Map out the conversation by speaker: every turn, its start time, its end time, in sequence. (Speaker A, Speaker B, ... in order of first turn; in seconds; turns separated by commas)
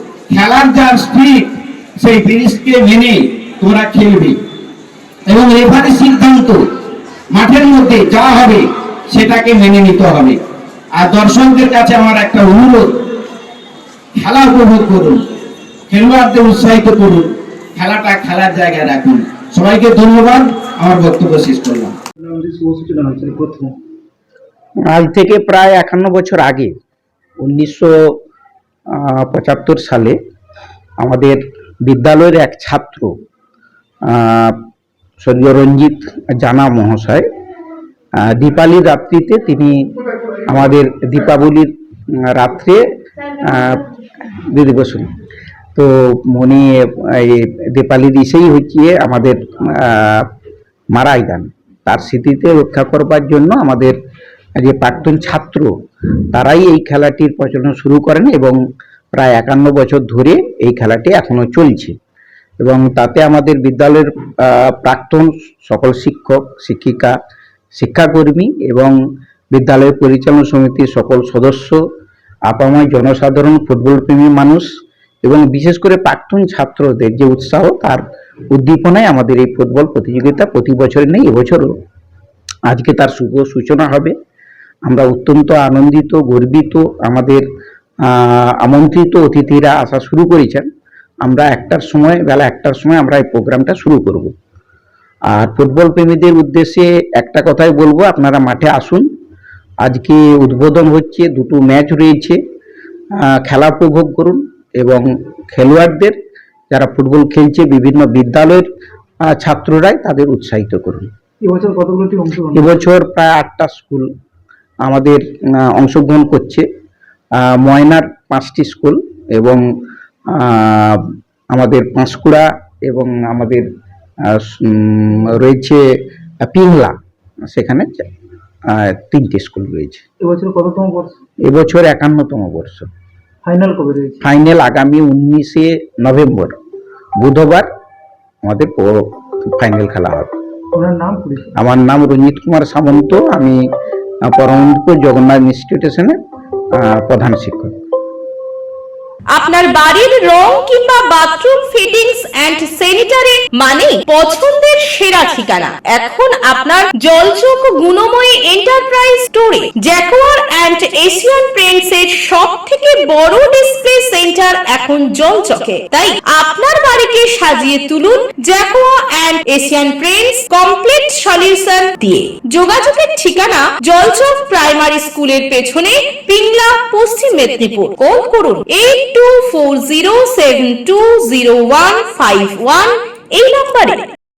Speaker A: 0.3-4.3, Speaker A: 5.3-6.6, Speaker A: 7.3-10.4, Speaker A: 10.9-12.9, Speaker A: 14.2-15.2, Speaker A: 15.9-21.9, Speaker B: 22.3-23.7, Speaker C: 24.9-26.7, Speaker C: 27.4-28.1, Speaker C: 28.9-30.1, Speaker C: 31.0-33.1, Speaker C: 34.1-34.5, Speaker C: 35.2-37.2, Speaker C: 38.2-39.8, Speaker C: 40.5-41.7, Speaker C: 42.2-42.8, Speaker C: 43.4-43.8, Speaker C: 44.5-45.0, Speaker C: 45.7-50.2, Speaker C: 50.9-54.0, Speaker C: 54.6-55.7, Speaker C: 56.3-58.6, Speaker C: 59.1-61.9, Speaker C: 62.6-67.2, Speaker C: 67.8-68.9, Speaker C: 69.5-71.8, Speaker C: 72.5-74.7, Speaker C: 75.2-81.7, Speaker C: 82.7-84.1, Speaker C: 84.8-87.4, Speaker C: 88.0-90.7, Speaker C: 91.2-94.3, Speaker C: 95.3-99.0, Speaker C: 99.8-102.4, Speaker C: 103.3-106.2, Speaker C: 106.7-108.7, Speaker C: 109.3-111.1, Speaker B: 111.4-112.5, Speaker C: 112.5-114.1, Speaker C: 114.8-116.6, Speaker C: 117.4-119.6, Speaker C: 120.3-121.0, Speaker C: 121.5-123.7, Speaker C: 124.3-125.8, Speaker C: 126.4-126.9, Speaker C: 127.5-128.1, Speaker C: 128.7-130.0, Speaker B: 130.2-131.1, Speaker C: 131.4-132.9, Speaker B: 133.4-134.2, Speaker C: 134.2-136.5, Speaker C: 137.2-137.7, Speaker C: 138.4-140.3, Speaker B: 140.8-141.5, Speaker C: 141.6-143.6, Speaker C: 144.3-146.1, Speaker C: 146.8-147.7, Speaker D: 149.3-184.0